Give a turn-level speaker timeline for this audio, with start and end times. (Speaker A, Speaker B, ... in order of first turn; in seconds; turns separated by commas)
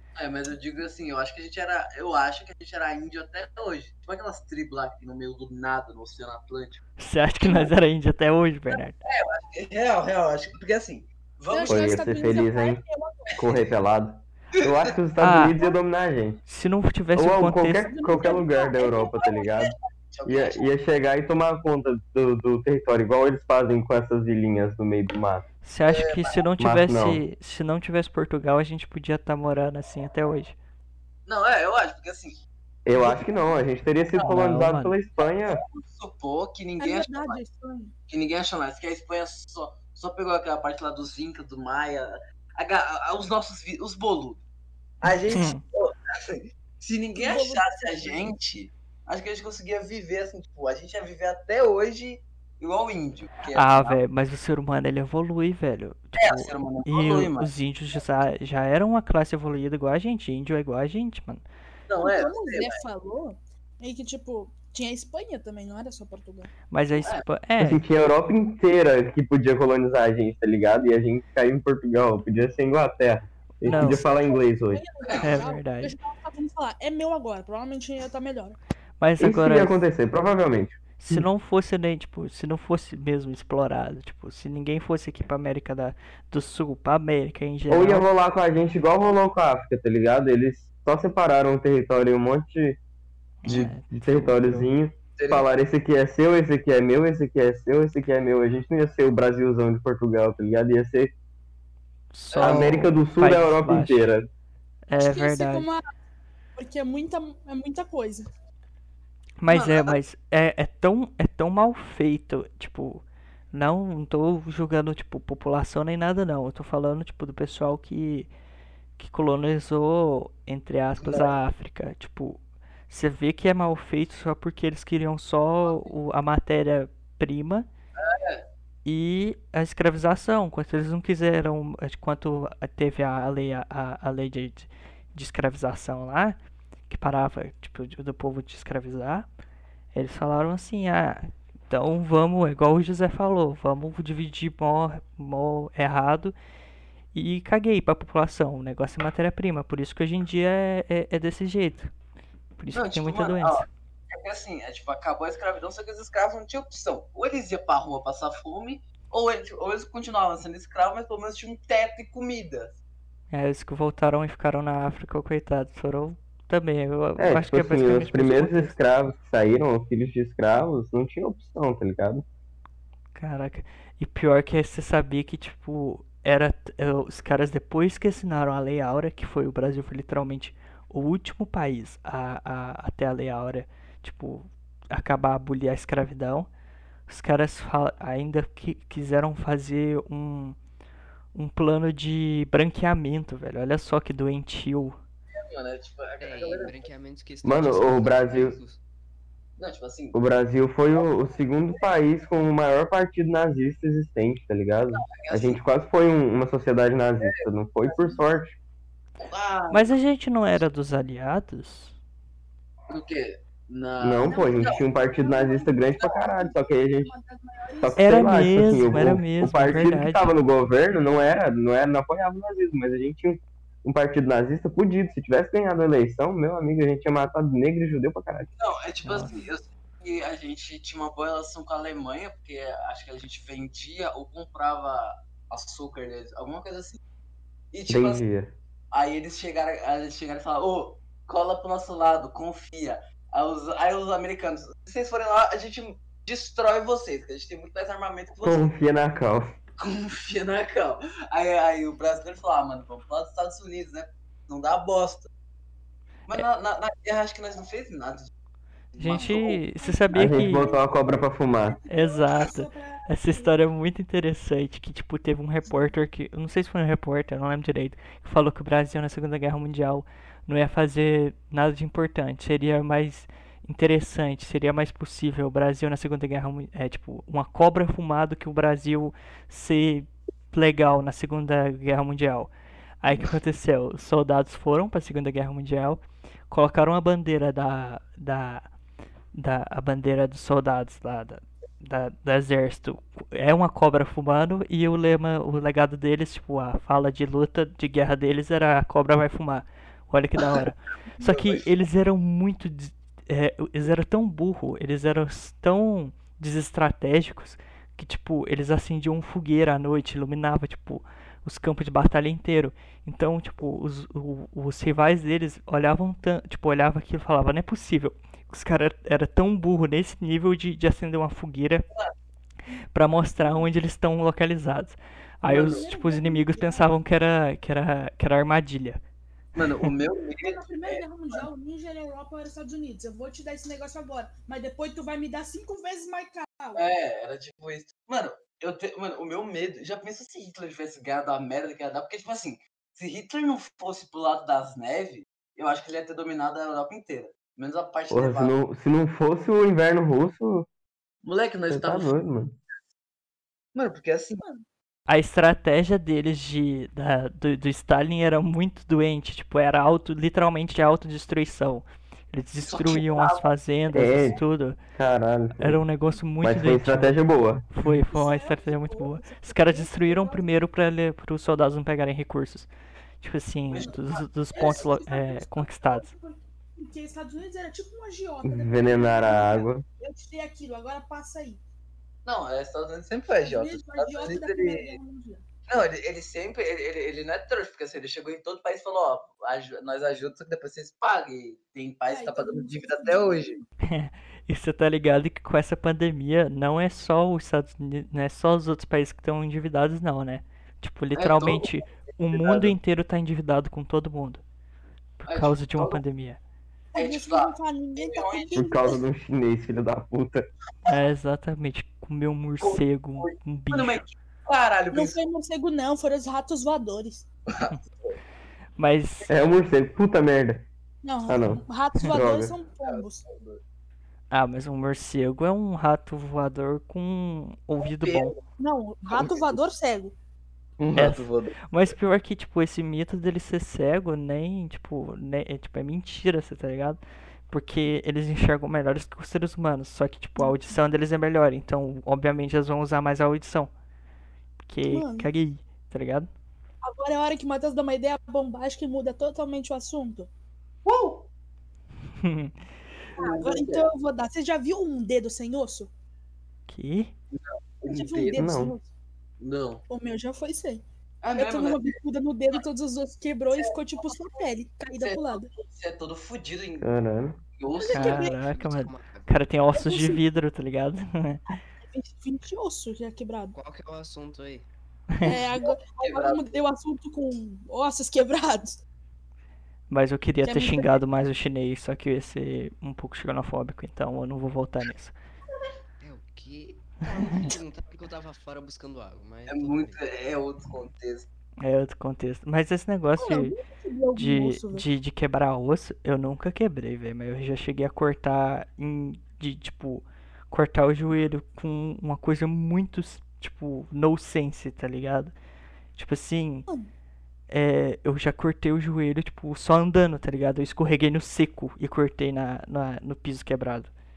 Speaker A: 0.2-6.8, Speaker B: 7.0-9.0, Speaker A: 9.1-12.1, Speaker C: 11.5-13.4, Speaker D: 11.7-12.8, Speaker D: 13.4-16.4, Speaker A: 13.4-13.7, Speaker B: 15.2-15.6, Speaker B: 16.5-17.9, Speaker D: 17.1-25.5, Speaker C: 17.9-19.7, Speaker A: 20.1-20.7, Speaker B: 25.6-30.6, Speaker A: 25.9-26.5, Speaker D: 26.6-27.2, Speaker A: 31.3-32.4, Speaker D: 32.9-35.6, Speaker B: 34.2-35.0, Speaker A: 35.2-37.4, Speaker C: 36.8-37.9, Speaker A: 38.1-44.4, Speaker A: 45.0-54.0, Speaker B: 45.1-45.6, Speaker C: 47.2-48.2, Speaker B: 53.5-61.5, Speaker A: 56.2-57.5, Speaker A: 61.9-62.8, Speaker C: 62.0-66.5, Speaker B: 66.7-67.8, Speaker D: 67.6-74.8, Speaker B: 73.6-74.0, Speaker C: 73.7-78.6, Speaker B: 75.2-76.0, Speaker B: 79.0-79.8, Speaker D: 79.2-81.3, Speaker B: 81.0-88.0, Speaker D: 87.7-92.8, Speaker B: 93.4-94.7, Speaker D: 93.5-101.1, Speaker A: 95.2-95.5, Speaker B: 102.1-104.1, Speaker A: 102.3-102.9, Speaker D: 102.4-104.3, Speaker B: 104.9-105.7, Speaker C: 105.0-105.8, Speaker C: 106.6-108.3, Speaker B: 109.4-118.3, Speaker A: 109.5-110.0, Speaker B: 119.0-127.7, Speaker A: 121.0-121.3, Speaker A: 125.7-125.9, Speaker A: 128.0-128.5, Speaker B: 128.8-136.4, Speaker B: 136.9-139.3, Speaker B: 139.9-146.3, Speaker B: 147.1-151.9, Speaker B: 152.6-153.7, Speaker A: 152.7-162.8, Speaker B: 163.3-168.8, Speaker D: 167.2-172.2, Speaker B: 173.2-186.5, Speaker B: 187.1-190.6, Speaker B: 191.3-195.0, Speaker A: 195.3-196.9, Speaker E: 196.2-198.8, Speaker D: 197.4-198.6, Speaker A: 199.6-200.2, Speaker D: 200.1-208.6, Speaker A: 205.0-205.6, Speaker A: 207.2-208.2, Speaker A: 209.2-209.9, Speaker B: 209.7-211.9, Speaker A: 212.9-214.8, Speaker D: 214.0-217.1, Speaker C: 214.2-218.1, Speaker D: 217.8-228.5, Speaker B: 218.0-220.3, Speaker A: 228.6-237.0, Speaker B: 229.0-229.3, Speaker A: 237.7-238.2, Speaker D: 237.9-238.5, Speaker A: 238.9-248.7, Speaker D: 248.4-249.5, Speaker A: 249.8-255.3, Speaker A: 256.3-258.3, Speaker A: 258.9-259.6, Speaker B: 259.0-260.7, Speaker C: 259.1-263.6, Speaker D: 260.1-261.8, Speaker B: 261.9-288.7, Speaker C: 265.6-265.9, Speaker B: 289.4-321.9, Speaker A: 301.2-301.6, Speaker B: 322.9-329.0, Speaker C: 323.4-323.7, Speaker A: 325.4-325.9, Speaker C: 325.5-326.9, Speaker A: 329.6-331.4, Speaker C: 330.4-336.8, Speaker A: 336.8-348.6, Speaker D: 348.1-350.7, Speaker A: 351.2-352.1, Speaker D: 351.7-352.6, Speaker A: 353.7-354.4, Speaker B: 355.1-364.8, Speaker A: 362.6-363.4, Speaker D: 363.9-364.4, Speaker D: 365.0-365.8, Speaker B: 365.6-367.2, Speaker D: 366.4-367.7, Speaker B: 367.7-372.7, Speaker C: 368.1-370.5, Speaker B: 373.2-376.1, Speaker A: 373.7-374.8, Speaker C: 374.5-381.6, Speaker D: 378.4-379.8, Speaker A: 382.2-385.0, Speaker C: 383.4-385.4, Speaker A: 385.7-393.6, Speaker C: 392.1-393.6, Speaker B: 393.8-404.4, Speaker A: 401.2-402.8, Speaker B: 405.2-406.4, Speaker A: 405.3-406.0, Speaker C: 406.9-409.0, Speaker A: 407.0-408.8, Speaker D: 408.6-410.4, Speaker B: 410.9-414.0, Speaker A: 412.6-415.2, Speaker C: 414.9-417.3, Speaker A: 417.5-418.2, Speaker B: 418.8-419.3, Speaker D: 419.3-420.7, Speaker C: 421.0-423.2, Speaker D: 421.3-422.5, Speaker A: 422.8-423.6, Speaker B: 424.3-428.3, Speaker A: 427.8-428.4, Speaker C: 428.6-430.1, Speaker A: 429.1-429.5, Speaker A: 430.8-431.6, Speaker B: 430.9-443.7, Speaker C: 440.4-440.8, Speaker B: 444.7-446.3, Speaker C: 444.9-445.3, Speaker C: 446.8-450.3, Speaker A: 450.8-451.3, Speaker B: 452.2-452.6, Speaker A: 453.2-453.9, Speaker C: 453.2-455.9, Speaker B: 456.7-457.1, Speaker A: 457.3-458.4, Speaker C: 457.9-458.9, Speaker D: 458.4-458.8, Speaker A: 459.4-459.8, Speaker C: 459.9-460.8, Speaker A: 461.2-461.9, Speaker C: 461.4-465.5, Speaker A: 465.0-466.9, Speaker D: 466.8-467.4, Speaker A: 467.6-468.3, Speaker C: 467.8-468.4, Speaker B: 467.9-471.4, Speaker E: 468.3-469.4, Speaker C: 469.7-470.2, Speaker C: 471.5-473.6, Speaker E: 473.5-474.7, Speaker C: 475.2-478.8, Speaker A: 476.0-476.4, Speaker B: 479.9-485.1, Speaker C: 480.4-481.0, Speaker E: 486.0-490.0, Speaker A: 489.5-491.3, Speaker B: 491.6-493.6, Speaker C: 493.2-494.9, Speaker B: 494.1-505.3, Speaker B: 506.0-506.7, Speaker B: 507.5-513.9